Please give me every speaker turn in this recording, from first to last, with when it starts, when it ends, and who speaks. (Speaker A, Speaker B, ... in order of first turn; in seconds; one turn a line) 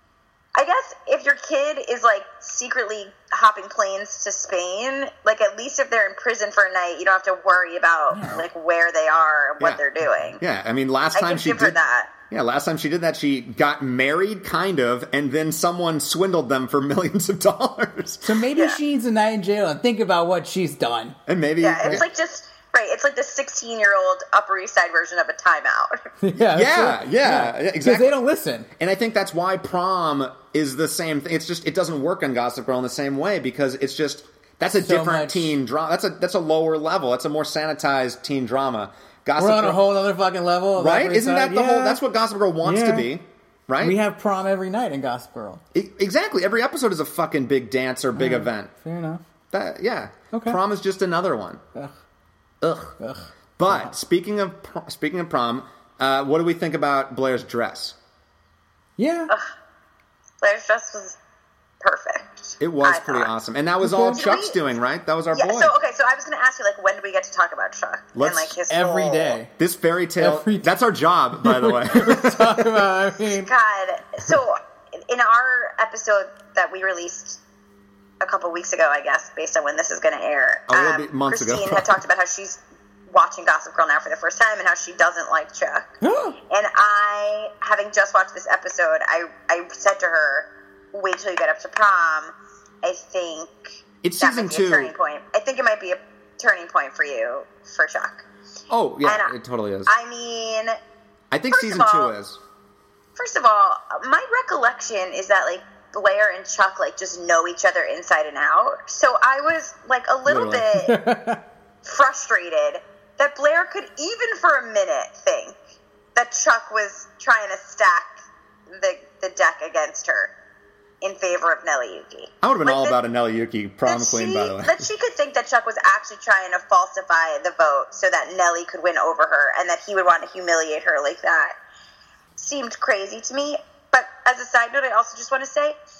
Speaker A: 0.5-10.4
Speaker B: 8.1-8.4
Speaker C: 10.4-11.8
Speaker A: 11.1-12.1
Speaker C: 12.3-18.4
Speaker B: 18.2-21.2
Speaker C: 21.3-22.1
Speaker A: 21.6-26.1
Speaker B: 26.2-28.7
Speaker C: 26.4-28.2
Speaker C: 28.8-39.8
Speaker B: 34.8-35.5
Speaker B: 39.4-42.0
Speaker C: 40.8-44.0
Speaker B: 42.6-43.1
Speaker B: 43.8-45.6
Speaker C: 45.7-48.7
Speaker B: 48.1-49.2
Speaker C: 49.5-51.6
Speaker B: 50.3-50.6
Speaker C: 52.6-52.9
Speaker B: 53.0-53.9
Speaker C: 53.6-58.0
Speaker B: 59.0-59.3
Speaker A: 60.4-61.2
Speaker A: 61.8-63.3
Speaker C: 62.6-65.7
Speaker B: 63.8-64.3
Speaker A: 64.1-64.6
Speaker A: 65.3-69.4
Speaker C: 68.1-68.5
Speaker B: 68.7-69.5
Speaker C: 69.6-72.8
Speaker B: 70.2-70.7
Speaker B: 71.4-73.5
Speaker A: 73.4-77.4
Speaker A: 78.2-85.9
Speaker C: 80.7-82.0
Speaker B: 86.0-86.3
Speaker A: 86.5-98.2
Speaker C: 94.0-94.9
Speaker C: 98.7-99.9
Speaker A: 99.0-99.3
Speaker A: 99.9-100.8
Speaker C: 101.3-102.4
Speaker A: 101.5-102.1
Speaker A: 103.2-111.0
Speaker C: 110.2-110.7
Speaker B: 110.8-111.4
Speaker A: 111.8-115.5
Speaker A: 116.1-118.2
Speaker A: 118.7-120.3
Speaker A: 121.0-123.0
Speaker C: 122.4-124.8
Speaker A: 123.8-131.6
Speaker A: 132.4-135.8